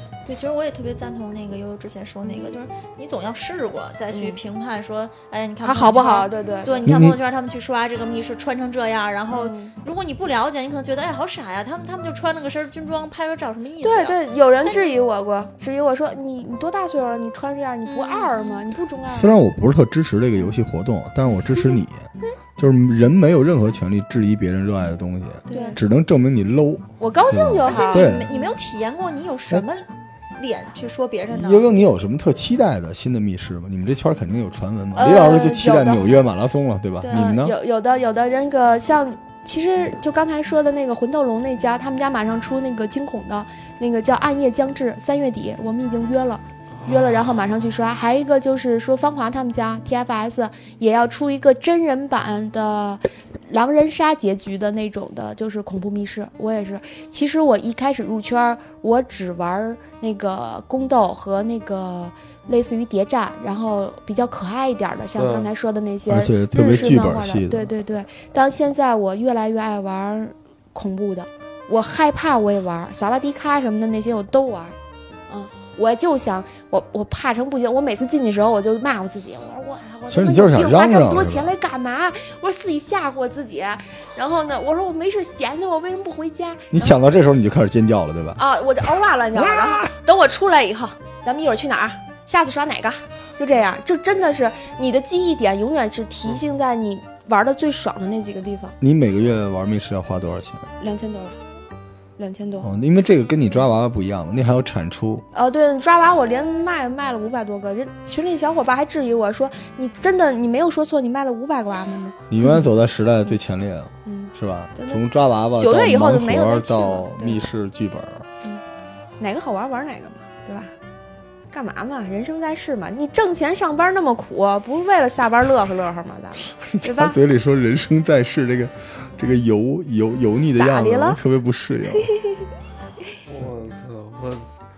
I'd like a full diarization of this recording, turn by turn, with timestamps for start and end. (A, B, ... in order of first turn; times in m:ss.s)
0:00.3-0:14.9 A
0:02.3-0:02.5 B
0:04.1-0:04.4 B
0:05.6-0:07.0 B
0:06.8-0:07.2 C
0:09.3-0:09.7 B
0:13.8-0:19.4 B
0:17.8-0:18.7 A
0:19.1-0:28.3 C
0:21.3-0:21.7 B
0:25.5-0:25.8 B
0:25.5-0:25.8 A
0:27.0-0:28.5 B
0:27.6-0:31.9 A
0:31.3-0:37.5 C
0:34.9-0:36.2 B
0:37.0-0:37.3 A
0:37.1-1:14.8 B
0:46.8-0:47.2 D
1:05.2-1:05.5 D
1:06.1-1:07.6 C
1:15.3-1:27.0 B
1:20.1-1:21.5 C
1:26.7-1:28.4 C
1:28.4-1:38.8 B
1:38.8-1:40.7 C
1:40.8-1:41.4 B
1:42.2-1:42.7 B
1:42.6-1:45.2 C
1:45.3-1:52.7 B
1:52.3-1:58.3 C
1:54.0-1:55.0 B
1:55.6-1:57.4 B
1:59.2-2:00.7 B
2:01.5-2:07.2 B
2:06.7-2:12.1 C
2:10.6-2:11.2 B
2:13.3-2:14.5 D